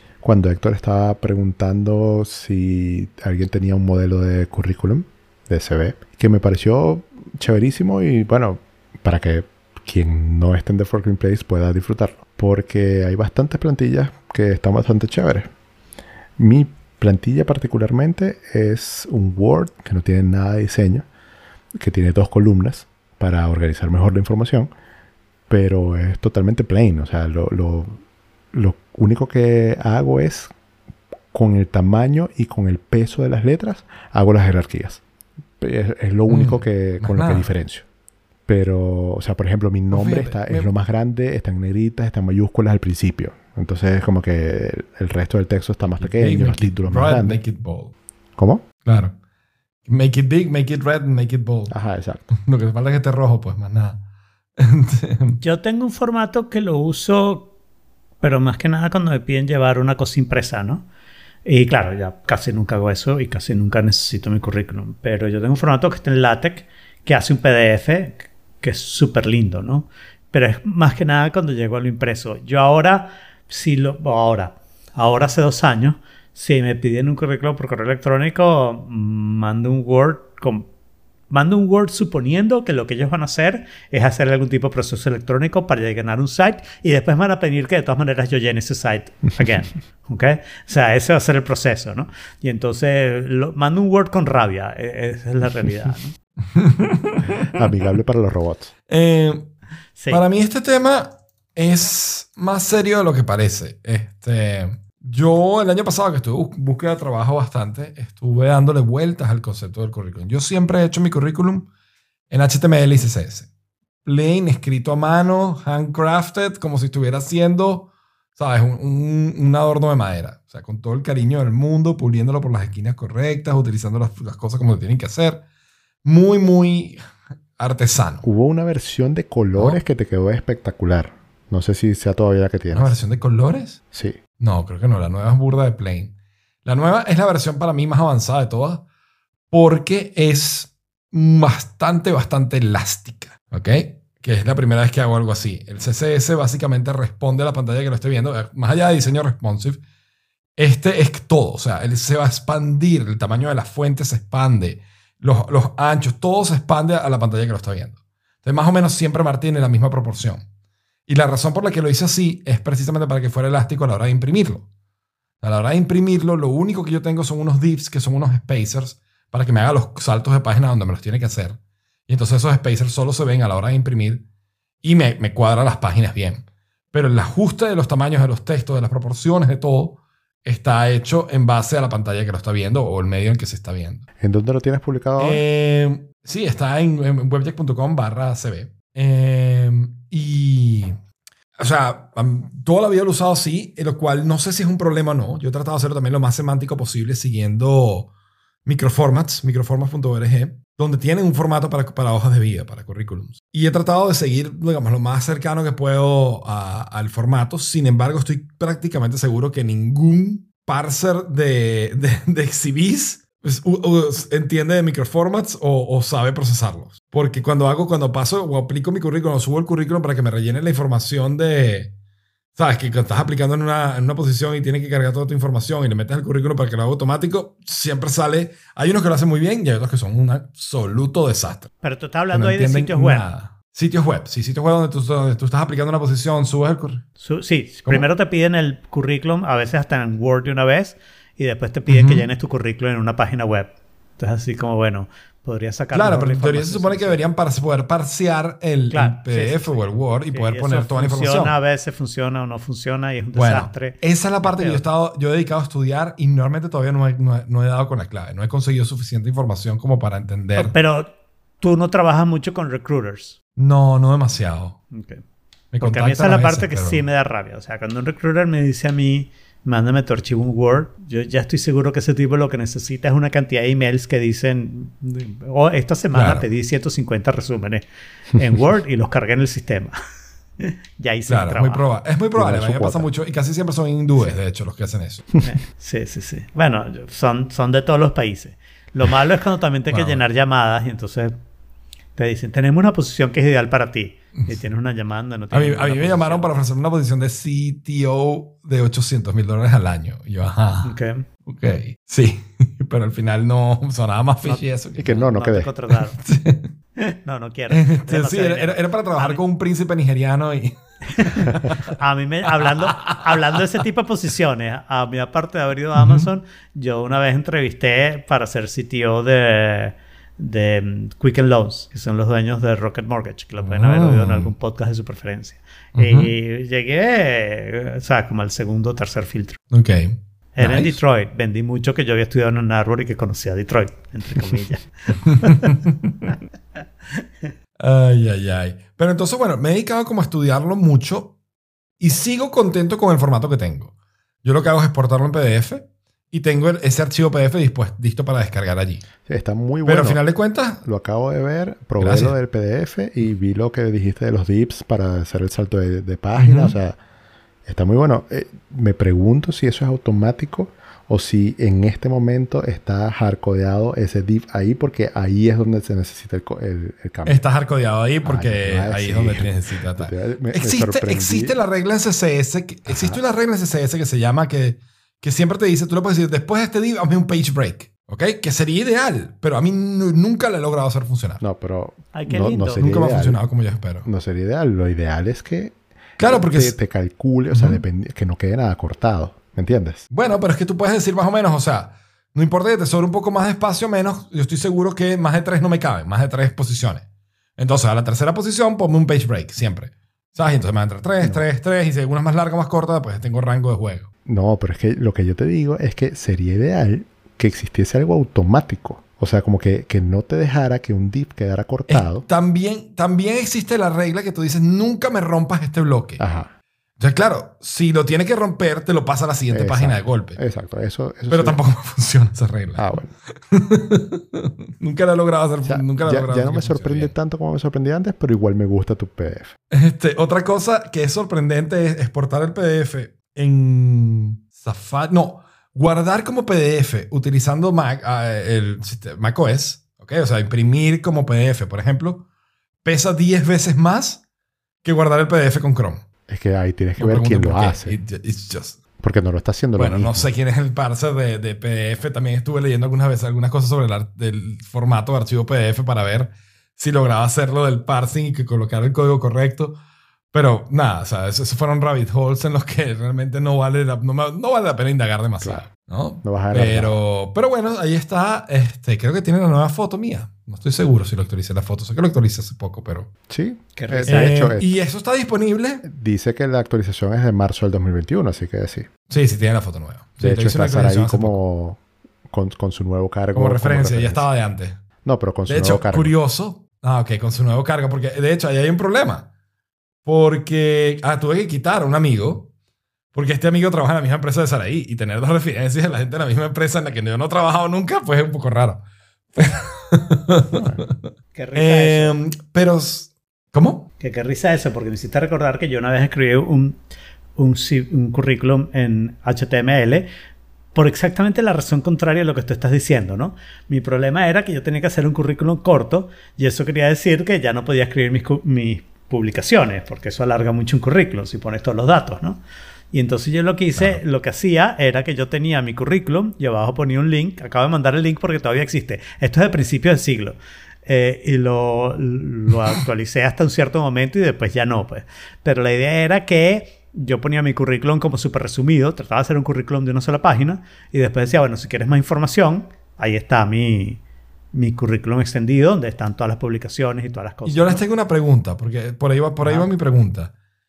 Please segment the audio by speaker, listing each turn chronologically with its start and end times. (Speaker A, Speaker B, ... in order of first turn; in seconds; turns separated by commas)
Speaker A: 0.2-15.5, Speaker A: 16.4-21.1, Speaker A: 21.8-24.7, Speaker A: 25.5-27.9, Speaker A: 28.5-30.5, Speaker A: 31.3-35.0, Speaker A: 35.6-37.8, Speaker B: 36.3-37.5, Speaker A: 38.5-47.4, Speaker B: 39.9-40.7, Speaker B: 46.0-47.9, Speaker A: 48.4-48.6, Speaker B: 48.9-49.1, Speaker B: 49.9-51.7, Speaker A: 51.7-52.3, Speaker B: 52.3-54.0, Speaker B: 54.6-55.4, Speaker C: 55.4-57.5, Speaker C: 58.2-60.8, Speaker C: 61.5-80.7, Speaker C: 81.3-96.1, Speaker B: 96.5-97.5, Speaker A: 97.5-98.7, Speaker B: 98.9-99.5, Speaker C: 100.0-100.2, Speaker B: 100.1-111.7, Speaker B: 112.3-113.5, Speaker B: 114.0-125.4, Speaker B: 126.0-127.0, Speaker B: 127.5-128.2, Speaker A: 128.2-132.9, Speaker B: 132.7-133.8, Speaker A: 133.9-134.2, Speaker B: 134.4-136.1, Speaker B: 136.6-138.8, Speaker B: 139.5-149.8, Speaker B: 150.6-160.4, Speaker B: 161.1-164.6, Speaker B: 165.4-174.2, Speaker B: 174.8-184.0, Speaker A: 184.2-185.4, Speaker B: 185.2-191.0, Speaker B: 191.6-198.1, Speaker B: 198.6-221.9, Speaker B: 222.5-231.7, Speaker C: 231.8-233.2, Speaker B: 232.3-237.0, Speaker C: 237.2-247.2, Speaker B: 241.9-242.2, Speaker B: 245.9-251.6, Speaker C: 248.9-254.8, Speaker B: 253.3-260.7, Speaker C: 260.6-263.4, Speaker B: 263.6-264.8, Speaker C: 264.9-265.2, Speaker B: 265.7-267.0, Speaker C: 265.8-279.9, Speaker B: 276.1-276.4, Speaker C: 280.6-281.8, Speaker B: 281.3-285.3, Speaker A: 282.4-283.1, Speaker C: 285.4-291.4, Speaker B: 289.9-290.2, Speaker C: 292.1-296.4, Speaker B: 295.5-300.9, Speaker C: 300.8-301.2, Speaker B: 301.4-305.2, Speaker C: 304.4-306.2, Speaker A: 305.0-305.7, Speaker B: 306.1-306.7, Speaker C: 307.0-309.4, Speaker B: 307.7-311.9, Speaker C: 311.1-329.6, Speaker B: 312.6-313.3, Speaker B: 315.9-316.3, Speaker B: 323.6-324.5, Speaker B: 325.9-326.3, Speaker B: 329.7-331.0, Speaker C: 330.6-336.3, Speaker B: 335.6-336.1, Speaker B: 337.8-341.3, Speaker B: 342.0-343.9, Speaker B: 344.4-349.0, Speaker A: 349.2-350.2, Speaker B: 349.8-350.8, Speaker A: 350.8-357.0, Speaker B: 352.0-352.4, Speaker B: 356.3-356.7, Speaker A: 357.6-367.4, Speaker B: 367.2-381.4, Speaker A: 368.2-371.6, Speaker A: 372.9-373.2, Speaker A: 381.4-383.4, Speaker C: 382.1-382.8, Speaker B: 382.8-384.1, Speaker A: 384.0-390.0, Speaker B: 386.2-386.8, Speaker B: 387.5-387.8, Speaker B: 390.1-397.0, Speaker B: 397.6-404.1, Speaker A: 404.2-412.2, Speaker B: 411.9-416.2, Speaker A: 416.2-416.5, Speaker B: 417.0-420.4, Speaker A: 419.5-421.6, Speaker B: 421.3-422.9, Speaker A: 422.8-423.1, Speaker B: 423.5-427.1, Speaker A: 425.6-429.5, Speaker B: 429.7-442.2, Speaker B: 442.8-444.2, Speaker B: 444.8-446.0, Speaker A: 446.3-448.0, Speaker B: 447.0-448.8, Speaker A: 449.0-450.3, Speaker B: 449.8-459.8, Speaker B: 460.3-473.1, Speaker A: 466.2-466.9, Speaker A: 473.3-474.7, Speaker C: 473.8-474.4, Speaker B: 474.1-475.8, Speaker A: 475.8-478.9, Speaker B: 479.1-481.4, Speaker A: 480.2-484.2, Speaker B: 483.3-484.8, Speaker A: 485.0-486.1, Speaker B: 485.5-489.2, Speaker B: 490.0-492.5, Speaker B: 493.1-498.8, Speaker B: 499.3-503.9, Speaker A: 500.5-500.8, Speaker C: 501.3-502.1, Speaker C: 504.0-506.8, Speaker C: 507.4-510.1, Speaker C: 510.7-522.4, Speaker C: 522.9-544.0, Speaker B: 523.8-524.0, Speaker C: 544.5-547.8, Speaker B: 547.4-550.3